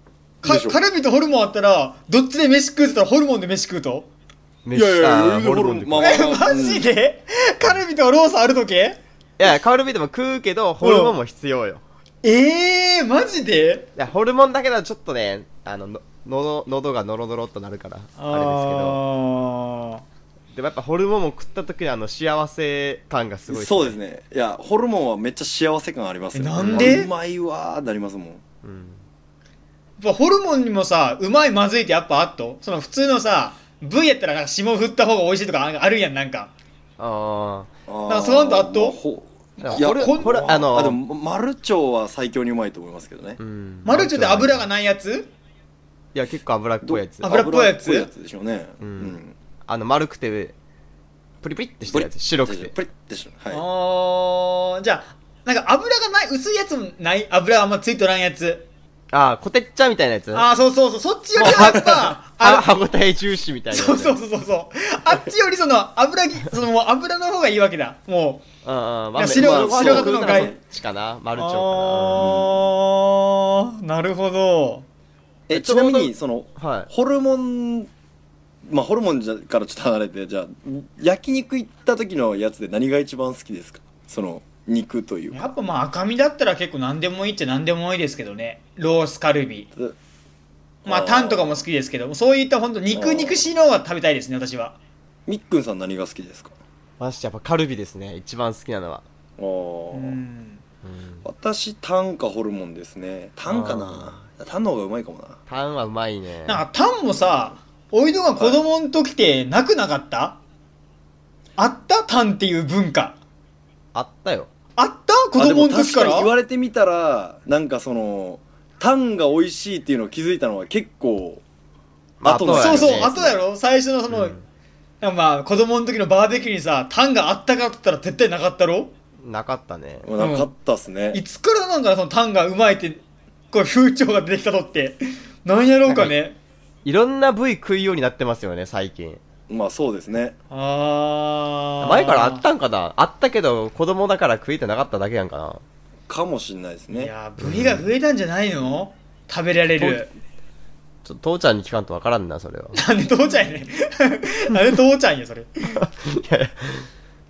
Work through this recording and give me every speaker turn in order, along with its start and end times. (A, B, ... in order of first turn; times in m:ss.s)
0:00.4-0:04.1 A
0:00.4-0:00.8 B
0:04.6-0:06.3 C
0:04.8-0:06.9 B
0:06.0-0:09.0 A
0:09.4-0:11.8 C
0:10.8-0:11.2 A
0:12.2-0:13.9 A
0:14.0-0:19.0 C
0:18.2-0:20.0 A
0:20.5-0:24.0 C
0:23.5-0:28.4 B
0:26.3-0:27.1 A
0:26.6-0:26.9 C
0:28.6-0:29.0 C
0:30.0-0:36.5 A
0:37.0-0:37.7 C
0:37.9-0:43.4 B
0:38.1-0:39.0 A
0:39.6-0:40.5 A
0:39.6-0:41.0 C
0:43.4-0:44.7 C
0:43.8-0:45.3 A
0:46.1-0:47.3 C
0:46.8-0:49.3 B
0:47.2-0:48.1 A
0:48.8-0:50.6 C
0:51.4-0:52.8 C
0:51.9-0:53.6 B
0:53.5-0:58.7 A
0:59.1-1:00.5 C
1:00.3-1:02.7 A
1:01.4-1:02.2 B
1:01.4-1:04.2 C
1:03.7-1:08.4 A
1:08.6-1:12.3 C
1:09.1-1:10.5 A
1:09.3-1:10.6 B
1:11.4-1:14.9 A
1:12.2-1:12.7 B
1:15.5-1:17.9 B
1:15.5-1:16.9 C
1:18.6-1:25.5 B
1:25.3-1:29.7 A
1:30.8-1:31.6 B
1:30.9-1:34.8 A
1:32.9-1:33.4 B
1:35.3-1:36.6 B
1:37.0-1:39.0 C
1:39.4-1:40.2 B
1:39.9-1:40.6 A
1:40.8-1:41.3 C
1:41.2-1:45.4 B
1:43.5-1:44.2 C
1:45.5-1:46.6 C
1:46.5-1:50.4 A
1:51.6-1:53.2 A
1:53.9-1:54.5 C
1:54.8-1:56.3 A
1:55.4-2:01.4 B
2:02.2-2:03.2 C
2:02.2-2:03.4 B
2:02.4-2:04.4 A
2:04.1-2:04.4 C
2:05.0-2:08.9 A
2:09.2-2:10.1 C
2:10.0-2:11.2 B
2:10.2-2:10.5 A
2:11.1-2:16.4 A
2:15.9-2:16.2 C
2:16.8-2:19.2 C
2:19.5-2:20.4 B
2:20.5-2:22.4 A
2:21.8-2:25.6 C
2:26.1-2:27.1 B
2:26.9-2:30.1 A
2:27.4-2:27.9 C
2:29.8-2:30.0 C
2:31.0-2:32.8 C
2:32.7-2:35.8 A
2:35.7-2:36.9 C